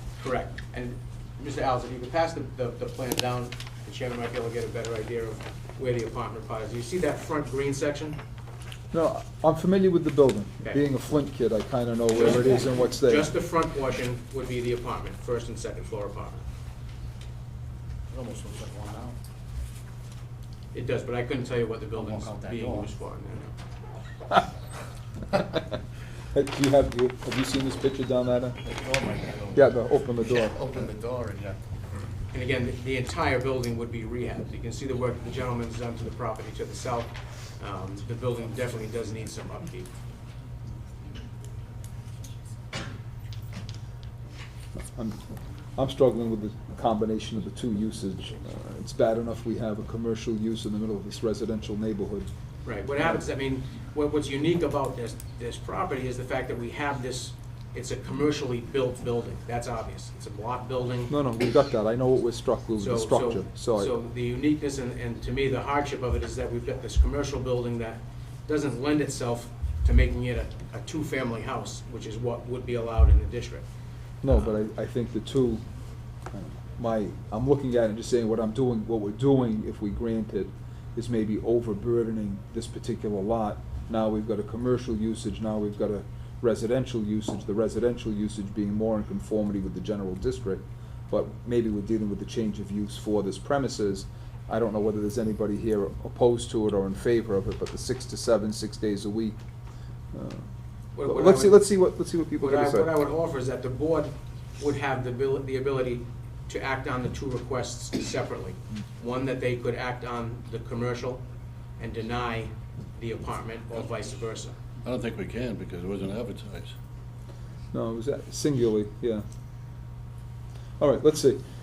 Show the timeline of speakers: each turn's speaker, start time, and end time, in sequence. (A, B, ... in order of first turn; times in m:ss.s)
0:00.2-0:08.2 A
0:08.9-0:13.3 B
0:12.1-0:16.4 A
0:18.1-0:19.2 C
0:20.7-0:23.5 A
0:21.9-0:22.9 C
0:26.3-0:28.6 B
0:28.6-0:29.7 C
0:29.5-0:30.8 B
0:30.2-0:31.6 C
0:32.3-0:39.9 A
0:45.8-0:52.3 B
0:52.6-1:01.1 A
1:01.1-1:03.9 B
1:02.8-1:13.6 A
1:14.2-1:15.6 B
1:16.3-1:39.4 B
1:40.1-1:40.5 B
1:40.9-1:41.7 A
1:41.0-1:42.9 B
1:42.4-1:51.2 A
1:51.8-1:54.6 A
1:54.8-1:56.8 D
1:57.7-1:59.2 B
2:00.8-2:01.4 B